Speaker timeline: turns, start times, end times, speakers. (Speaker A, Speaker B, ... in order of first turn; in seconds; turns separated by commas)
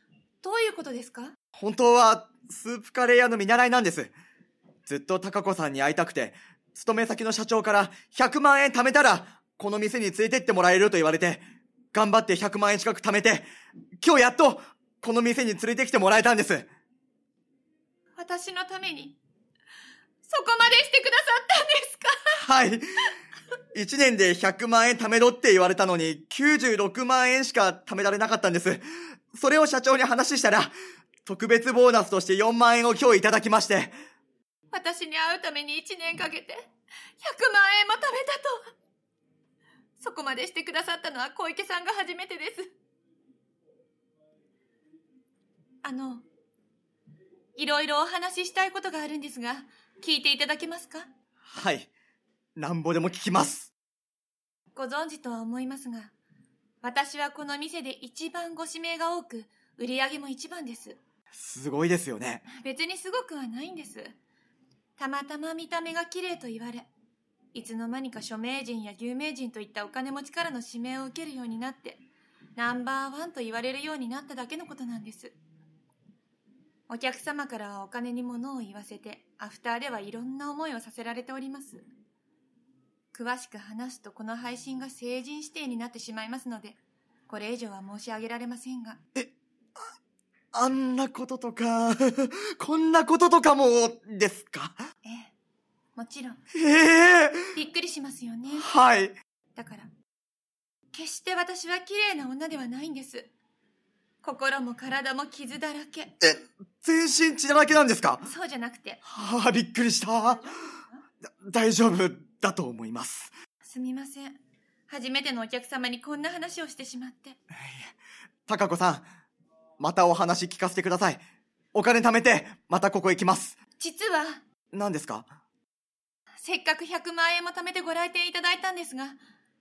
Speaker A: 0.4-1.3, Speaker B: 1.6-4.1, Speaker B: 4.9-13.5, Speaker B: 14.0-16.7, Speaker A: 18.2-19.2, Speaker A: 20.3-22.4, Speaker B: 22.4-23.1, Speaker B: 23.7-34.0, Speaker A: 34.7-36.7, Speaker A: 37.2-38.7, Speaker A: 40.0-42.7, Speaker A: 45.8-46.2, Speaker A: 47.6-51.1, Speaker B: 51.5-51.9, Speaker B: 52.6-53.7, Speaker A: 54.8-56.1, Speaker A: 56.8-61.0, Speaker B: 61.3-62.5, Speaker A: 62.5-64.1, Speaker A: 65.0-66.9, Speaker A: 67.5-72.0, Speaker A: 72.6-75.3, Speaker A: 76.9-81.8, Speaker A: 83.1-86.8, Speaker A: 87.3-89.0, Speaker B: 90.5-94.8, Speaker A: 95.0-95.3, Speaker A: 96.0-96.4, Speaker B: 96.5-97.6, Speaker A: 97.5-98.7, Speaker B: 98.5-99.2, Speaker A: 99.5-99.9, Speaker A: 100.9-103.3, Speaker A: 104.2-106.1, Speaker B: 106.2-108.3, Speaker A: 108.2-109.0, Speaker B: 109.0-110.5, Speaker B: 111.4-113.3, Speaker A: 113.6-114.4, Speaker A: 114.9-117.4, Speaker B: 117.5-117.9, Speaker B: 118.5-119.1, Speaker B: 119.8-121.2, Speaker B: 121.7-123.6, Speaker A: 123.8-124.4, Speaker B: 124.7-125.3, Speaker A: 126.4-129.2